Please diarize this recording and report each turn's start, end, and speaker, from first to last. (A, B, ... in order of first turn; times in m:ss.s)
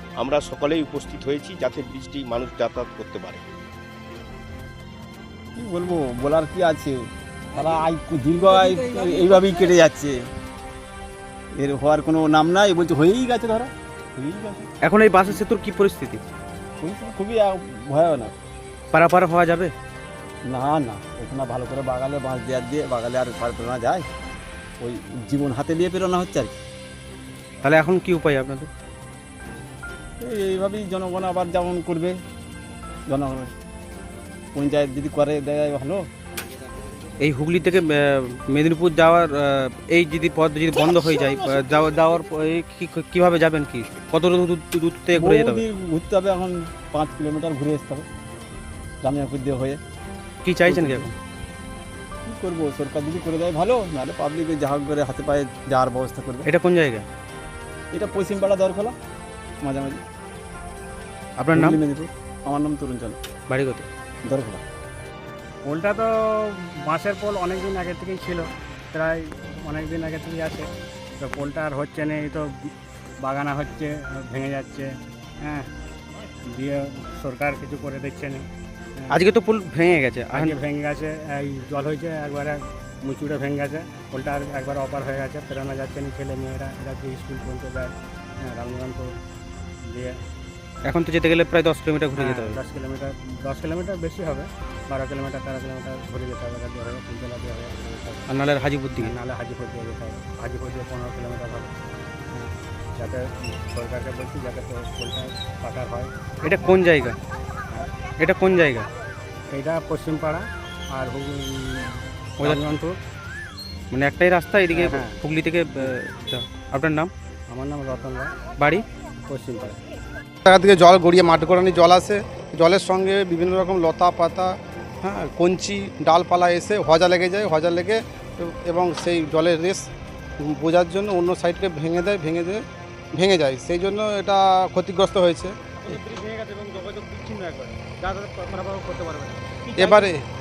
0:00.2-0:03.4 A
0:05.6-0:10.3 B
0:11.5-0:14.7 B
0:14.8-0:16.2 C
0:16.8-0:18.3 B
0:18.9-0:19.7 C
0:20.4-0:24.1 B
0:24.8-0:26.5 B
0:27.6-0:28.7 C
0:30.2-0:32.2 B
0:33.1-0:33.5 B
0:34.5-0:36.1 B
0:37.2-0:45.6 C
0:40.7-0:41.8 B
0:45.1-0:48.1 B
0:49.0-0:49.8 B
0:50.4-0:51.1 C
0:50.7-0:51.1 B
0:52.2-0:56.5 B
0:56.4-0:57.0 C
0:57.9-0:59.0 B
0:59.6-1:00.0 B
1:01.4-1:01.8 C
1:01.5-1:03.2 B
1:03.5-1:03.8 C
1:04.2-1:04.6 B
1:05.6-1:10.7 D
1:11.2-1:12.7 D
1:13.2-1:15.7 D
1:16.5-1:18.5 D
1:19.1-1:20.6 C
1:20.3-1:29.2 D
1:29.8-1:30.2 D
1:30.8-1:32.6 C
1:32.2-1:38.3 D
1:38.3-1:39.1 C
1:39.0-1:41.8 D
1:42.3-1:46.8 D
1:46.4-1:47.2 C
1:48.2-1:48.9 C
1:49.5-1:53.0 D
1:52.4-1:52.6 C
1:53.9-1:57.1 C
1:54.7-1:55.2 D
1:57.5-1:58.4 D
1:58.6-1:58.8 C
1:59.3-1:59.8 D
2:00.4-2:09.9 E
2:10.4-2:12.6 E
2:13.1-2:15.5 E
2:19.8-2:20.2 E